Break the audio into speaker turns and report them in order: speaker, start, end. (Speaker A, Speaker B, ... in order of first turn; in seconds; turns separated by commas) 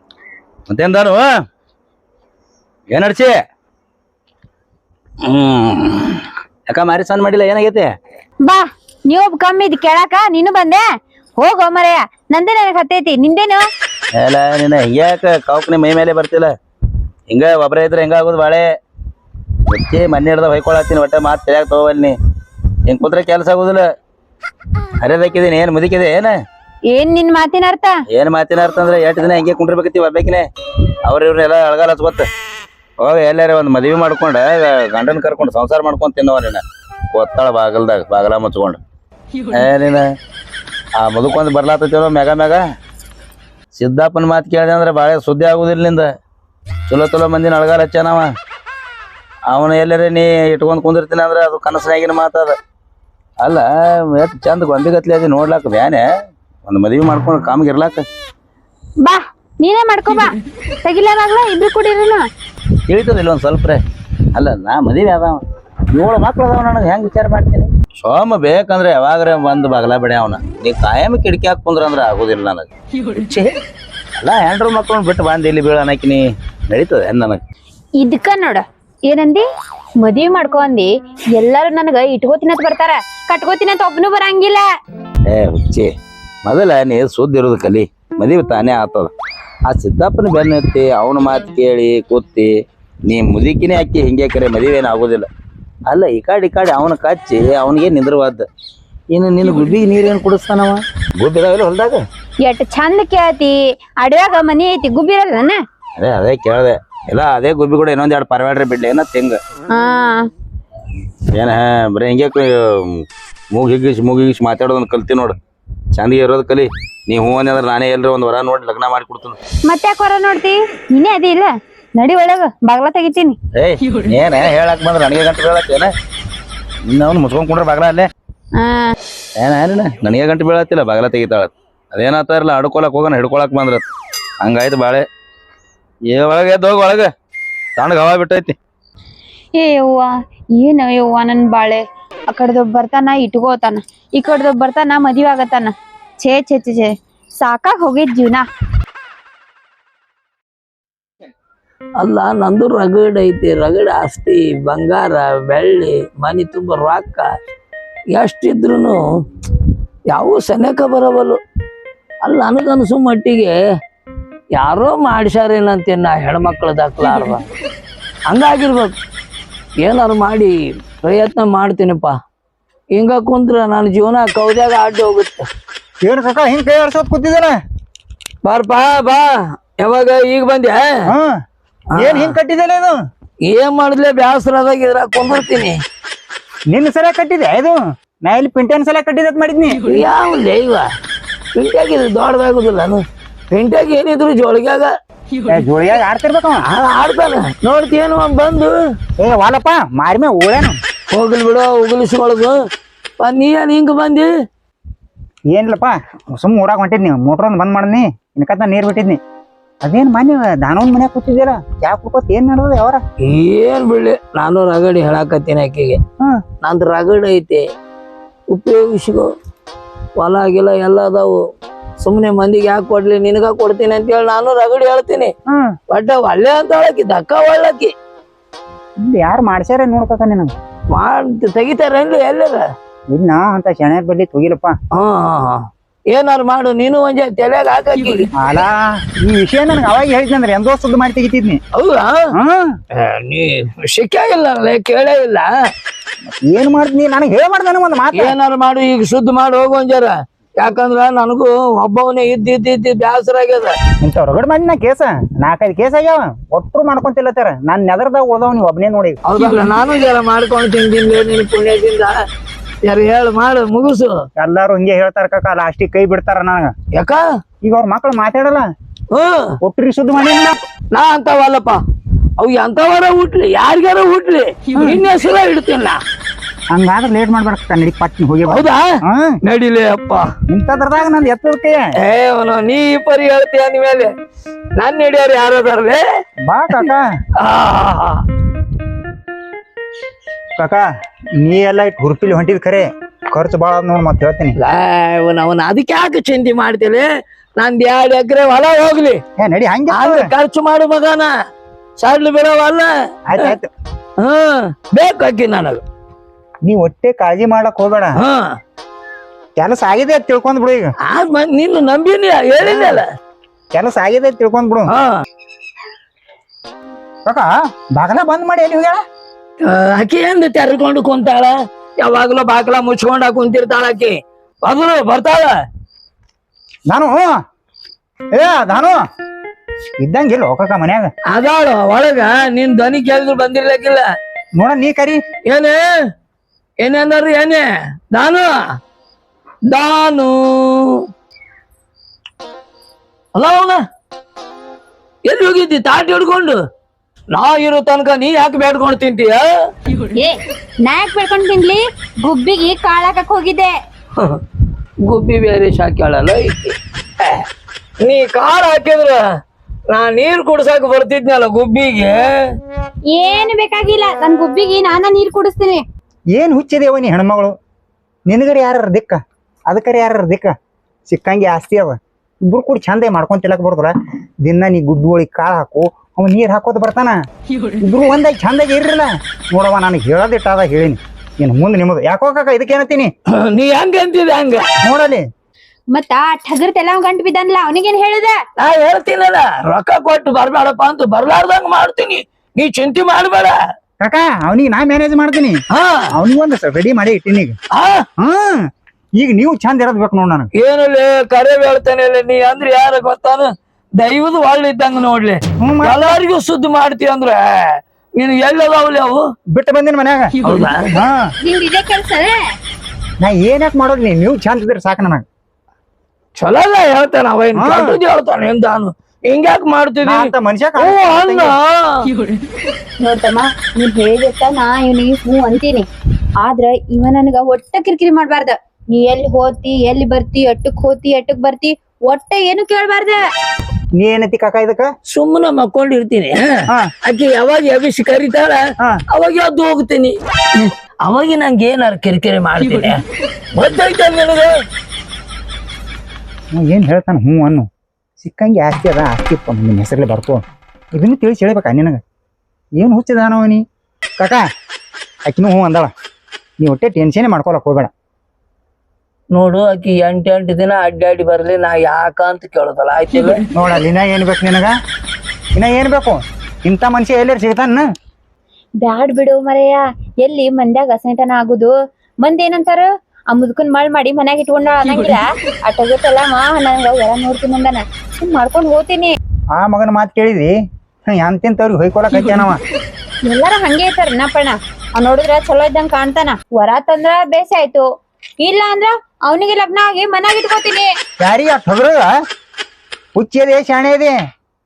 Speaker A: 0.7-1.3, Speaker A: 2.9-3.3, Speaker A: 5.2-7.9, Speaker B: 8.4-10.8, Speaker B: 11.4-13.6, Speaker A: 14.2-16.5, Speaker A: 17.3-18.6, Speaker A: 19.7-22.1, Speaker A: 22.9-23.8, Speaker A: 25.0-26.4, Speaker B: 26.9-27.9, Speaker A: 28.1-30.4, Speaker A: 31.1-32.3, Speaker A: 33.0-38.8, Speaker A: 39.5-40.1, Speaker A: 41.0-42.6, Speaker A: 43.7-46.1, Speaker A: 46.9-48.3, Speaker A: 49.5-52.5, Speaker A: 53.4-56.0, Speaker A: 56.7-58.0, Speaker B: 59.0-62.3, Speaker A: 62.9-63.8, Speaker A: 64.3-73.5, Speaker A: 74.2-77.4, Speaker B: 78.0-79.5, Speaker B: 80.0-84.7, Speaker A: 85.3-85.9, Speaker A: 86.5-89.1, Speaker A: 89.7-92.5, Speaker A: 93.1-95.3, Speaker A: 95.9-98.5, Speaker A: 99.1-102.0, Speaker B: 102.4-105.6, Speaker A: 106.0-109.4, Speaker B: 109.7-110.3, Speaker A: 111.3-115.4, Speaker A: 115.9-119.4, Speaker B: 119.7-123.4, Speaker A: 123.5-125.9, Speaker A: 126.9-128.1, Speaker B: 128.6-128.9, Speaker A: 129.4-133.8, Speaker A: 134.4-135.0, Speaker A: 136.1-137.1, Speaker A: 137.8-138.6, Speaker B: 139.5-148.5, Speaker C: 152.0-157.3, Speaker C: 158.1-159.0, Speaker C: 160.1-161.4, Speaker C: 162.2-163.6, Speaker C: 164.6-167.4, Speaker C: 168.3-168.9, Speaker C: 169.8-172.1, Speaker C: 172.9-175.4, Speaker D: 176.0-177.6, Speaker C: 178.4-180.9, Speaker D: 181.1-181.4, Speaker D: 182.0-183.0, Speaker C: 182.0-182.4, Speaker C: 183.5-185.8, Speaker D: 186.7-189.8, Speaker C: 189.9-190.8, Speaker C: 191.6-194.9, Speaker D: 195.5-196.7, Speaker C: 196.7-198.7, Speaker D: 199.2-200.8, Speaker C: 201.1-202.6, Speaker C: 203.2-204.3, Speaker D: 205.5-209.2, Speaker D: 209.8-213.0, Speaker C: 213.2-216.0, Speaker C: 216.6-217.6, Speaker C: 218.5-219.3, Speaker C: 220.2-221.4, Speaker C: 222.0-225.3, Speaker D: 225.5-225.7, Speaker C: 225.9-227.9, Speaker D: 229.0-230.5, Speaker C: 230.9-232.6, Speaker D: 233.1-234.8, Speaker C: 234.9-238.3, Speaker D: 238.4-241.6, Speaker C: 241.8-242.2, Speaker D: 242.3-242.7, Speaker C: 243.0-245.5, Speaker D: 246.3-248.3, Speaker C: 248.2-253.8, Speaker D: 254.0-259.2, Speaker C: 259.3-262.1, Speaker C: 262.9-264.1, Speaker D: 264.4-266.7, Speaker C: 267.0-267.2, Speaker D: 267.6-268.7, Speaker C: 269.1-269.5, Speaker D: 269.6-270.6, Speaker C: 270.9-271.8, Speaker C: 272.4-276.0, Speaker D: 276.7-279.4, Speaker C: 278.5-278.9, Speaker C: 279.4-280.3, Speaker D: 280.5-281.9, Speaker C: 282.0-284.1, Speaker C: 284.8-286.0, Speaker D: 286.4-287.1, Speaker C: 287.4-288.2, Speaker D: 290.6-290.9, Speaker D: 291.4-294.6, Speaker C: 294.6-299.2, Speaker D: 299.4-300.3, Speaker C: 299.9-301.3, Speaker C: 302.0-303.6, Speaker D: 303.3-303.7, Speaker C: 304.2-305.8, Speaker D: 306.6-308.2, Speaker C: 308.2-308.4, Speaker D: 309.6-310.9, Speaker C: 311.1-313.1, Speaker D: 312.6-313.0, Speaker D: 313.7-314.9, Speaker C: 314.9-315.2, Speaker D: 317.3-319.0, Speaker C: 319.6-325.5, Speaker D: 326.9-327.4, Speaker D: 328.3-329.0, Speaker D: 330.0-331.1, Speaker C: 331.3-334.0, Speaker D: 334.6-335.2, Speaker C: 335.5-335.8, Speaker C: 336.8-338.5, Speaker C: 339.7-341.0, Speaker C: 343.4-343.8, Speaker C: 345.3-346.6, Speaker C: 347.3-349.5, Speaker B: 350.2-353.8, Speaker C: 355.1-357.4, Speaker C: 358.0-359.2, Speaker C: 359.9-362.5, Speaker B: 363.1-365.8, Speaker D: 366.4-367.5, Speaker D: 368.3-370.5, Speaker D: 371.1-372.0, Speaker D: 372.5-373.9, Speaker D: 374.4-377.2, Speaker D: 377.9-383.1, Speaker C: 383.3-384.7, Speaker D: 384.8-385.2, Speaker B: 385.9-388.4, Speaker C: 388.6-393.6, Speaker D: 394.0-395.6, Speaker C: 395.7-396.1, Speaker D: 396.1-397.6, Speaker C: 397.8-398.1, Speaker D: 398.2-400.5, Speaker C: 400.6-409.2, Speaker D: 405.6-406.2, Speaker D: 409.5-411.3, Speaker C: 410.4-410.9, Speaker B: 411.4-412.4, Speaker D: 413.2-415.2, Speaker C: 416.4-422.1, Speaker D: 417.6-418.0, Speaker D: 420.0-421.6, Speaker B: 423.0-425.9, Speaker B: 426.4-433.2, Speaker D: 434.0-434.9, Speaker C: 435.1-443.0, Speaker C: 443.6-444.5, Speaker D: 446.5-447.7, Speaker D: 448.2-450.4, Speaker D: 451.0-452.0, Speaker D: 452.8-453.6, Speaker D: 455.3-455.9, Speaker D: 456.6-457.9, Speaker C: 459.3-463.4, Speaker D: 463.6-464.7, Speaker D: 465.6-467.9, Speaker B: 468.8-479.2, Speaker D: 479.6-480.5, Speaker D: 481.1-482.6, Speaker B: 483.2-487.9, Speaker B: 488.4-490.9, Speaker D: 491.2-492.1, Speaker D: 493.2-494.1